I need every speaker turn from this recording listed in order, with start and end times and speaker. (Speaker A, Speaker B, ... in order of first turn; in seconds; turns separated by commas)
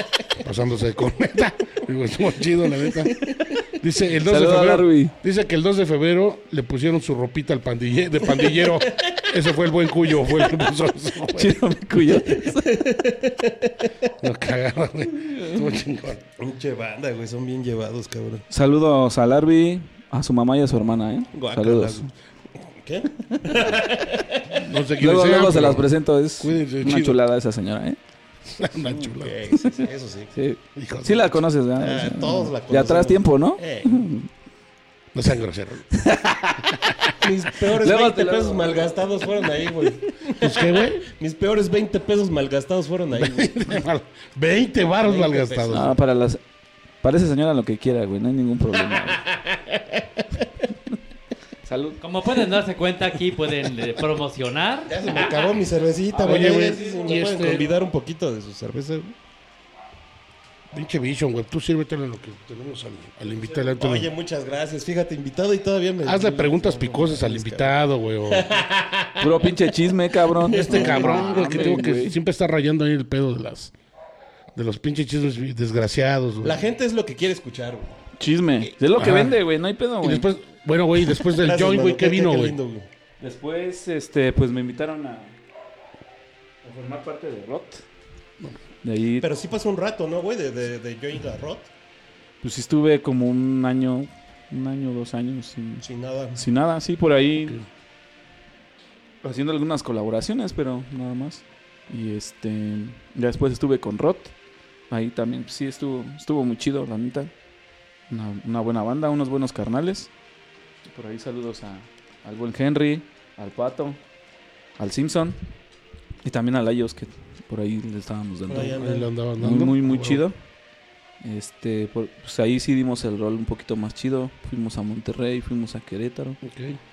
Speaker A: 0.4-11.6, Speaker B: 4.2-5.1, Speaker C: 8.3-9.3, Speaker B: 11.3-12.8, Speaker C: 12.2-13.9, Speaker A: 14.2-16.2, Speaker B: 15.2-15.7, Speaker C: 16.4-18.5, Speaker B: 18.5-22.1, Speaker C: 21.3-22.1, Speaker C: 22.8-24.6, Speaker A: 24.6-27.2, Speaker B: 25.0-28.0, Speaker A: 28.5-29.4, Speaker C: 28.8-30.3, Speaker B: 30.3-34.3, Speaker A: 30.8-31.4, Speaker C: 31.8-34.0, Speaker A: 35.1-35.9, Speaker B: 35.9-36.8, Speaker C: 37.1-43.8, Speaker B: 37.7-39.3, Speaker A: 40.4-41.1, Speaker A: 43.1-45.9, Speaker C: 45.0-45.9, Speaker B: 45.7-46.4, Speaker B: 47.0-49.2, Speaker C: 49.3-50.2, Speaker B: 51.6-52.0, Speaker D: 52.0-55.0, Speaker C: 54.9-59.1, Speaker B: 56.1-57.6, Speaker A: 56.2-57.7, Speaker A: 60.7-64.1, Speaker C: 63.3-69.5, Speaker A: 66.0-68.5, Speaker B: 69.2-72.2, Speaker C: 70.3-71.8, Speaker A: 70.6-73.7, Speaker A: 74.5-76.6, Speaker C: 76.4-77.9, Speaker B: 78.2-80.2, Speaker A: 78.6-79.4, Speaker A: 80.0-82.6, Speaker C: 81.3-82.9, Speaker B: 83.2-85.4, Speaker B: 86.6-87.8, Speaker B: 88.8-89.3, Speaker C: 89.2-91.7, Speaker B: 92.4-97.6, Speaker C: 95.8-96.4, Speaker B: 99.2-104.3, Speaker B: 104.9-107.3, Speaker B: 108.1-110.1, Speaker B: 110.9-114.0, Speaker B: 114.8-115.4, Speaker B: 116.2-118.8, Speaker C: 118.5-119.1, Speaker A: 118.6-120.2, Speaker B: 119.4-120.4, Speaker B: 121.2-126.4, Speaker A: 126.4-126.8